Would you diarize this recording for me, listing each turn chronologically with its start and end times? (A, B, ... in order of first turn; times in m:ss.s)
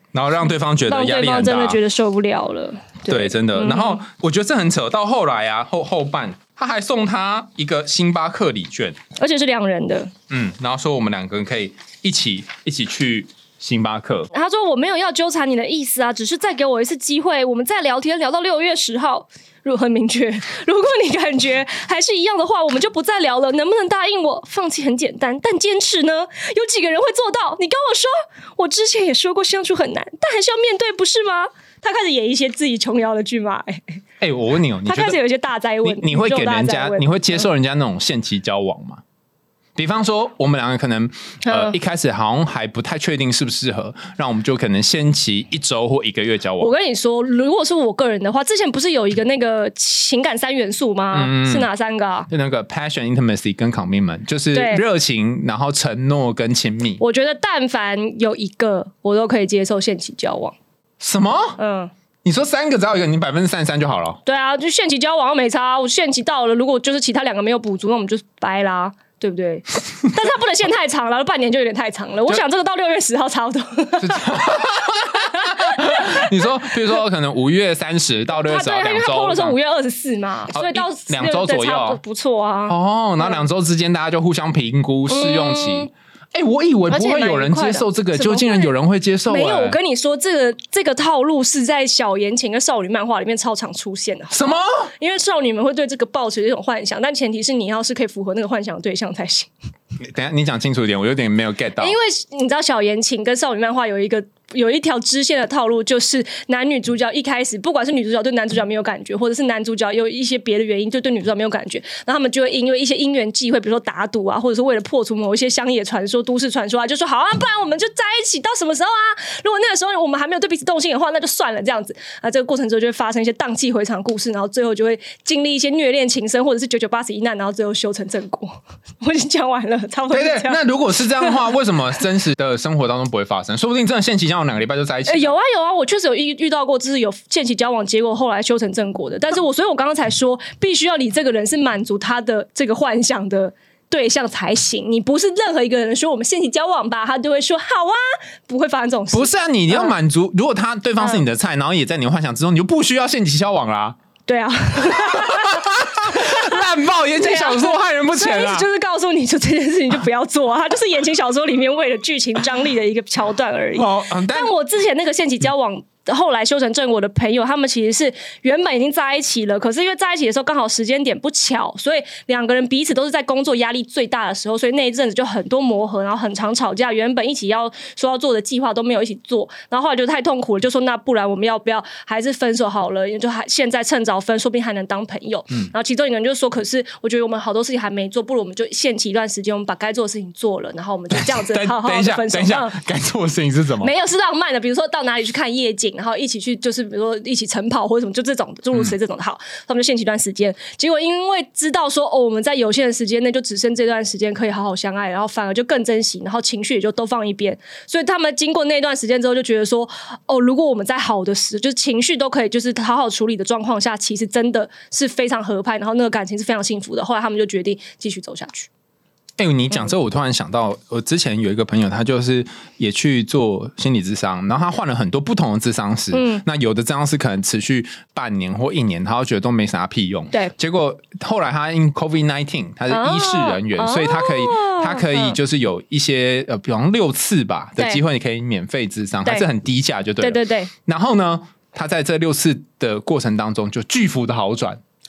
0:00.1-0:01.8 A
0:00.9-0:04.0 B
0:03.1-0:09.0 A
0:09.2-0:10.1 B
0:10.3-0:14.3 A
0:14.3-0:34.0 B
0:34.2-0:35.2 A
0:34.9-0:37.5 B
0:35.8-0:39.0 A
0:39.8-0:46.7 A
0:41.4-0:41.8 B
0:46.6-0:52.3 B
0:51.1-0:51.7 A
0:52.3-0:57.0 A
0:54.5-0:54.8 B
0:57.0-1:00.6 B
1:01.0-1:01.6 A
1:01.6-1:01.9 B
1:02.2-1:04.2 A
1:04.3-1:16.3 B
1:14.0-1:19.6 A
1:18.3-1:23.4 B
1:20.5-1:22.0 A
1:22.7-1:29.8 A
1:25.1-1:25.9 B
1:26.9-1:28.7 B
1:29.3-1:39.5 B
1:34.3-1:34.9 A
1:40.0-1:42.0 A
1:41.8-2:10.6 B
2:10.1-2:15.4 A
2:15.1-2:29.9 B
2:29.1-2:34.0 A
2:34.3-2:36.6 B
2:34.9-2:38.7 A
2:37.2-3:12.8 B
2:43.8-2:44.5 A
3:11.1-3:13.9 A
3:13.8-3:38.7 B
3:39.4-4:04.8 A
3:46.1-3:46.4 B
3:52.9-3:55.4 B
4:00.2-4:00.7 B